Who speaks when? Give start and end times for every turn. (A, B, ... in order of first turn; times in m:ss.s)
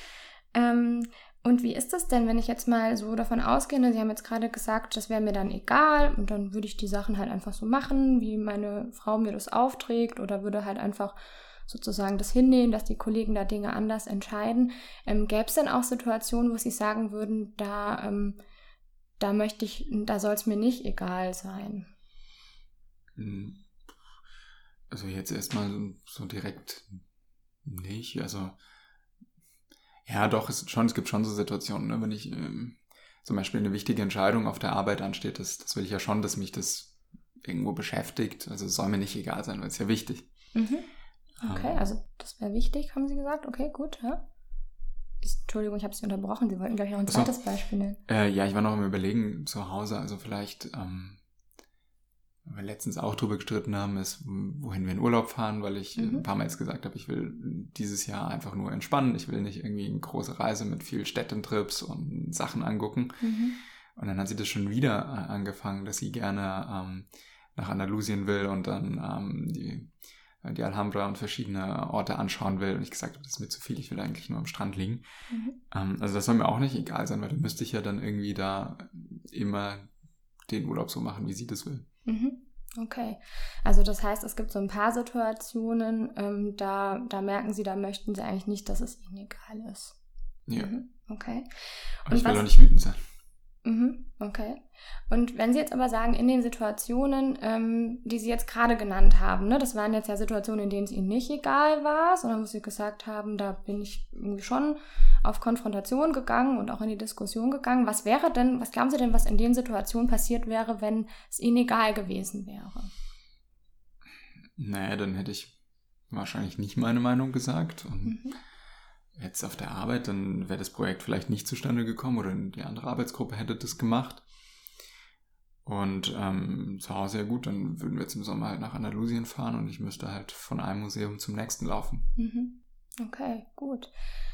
0:00.5-0:18.4 A
0:19.2-0:21.9 A
0:23.2-0:23.6 B
0:24.9-0:27.0 B
0:27.6-0:28.6 B
0:30.1-0:40.3 B
0:40.6-0:40.9 A
0:41.4-0:41.8 B
0:41.4-0:44.2 A
0:45.2-0:48.0 A
0:47.1-0:47.3 B
0:48.1-0:51.2 B
0:52.4-1:03.4 B
0:56.0-0:56.2 A
1:03.2-1:03.6 A
1:04.0-1:15.0 B
1:15.3-1:15.6 A
1:15.7-1:19.9 B
1:20.5-1:21.9 B
1:22.1-1:30.0 A
1:30.5-1:30.7 B
1:30.6-1:32.4 A
1:32.1-1:33.0 B
1:33.6-1:52.9 A
1:54.6-1:55.6 B
1:56.1-1:58.3 B
1:58.1-1:58.4 A
1:59.2-2:04.2 B
2:05.6-2:12.1 B
2:12.2-2:13.9 A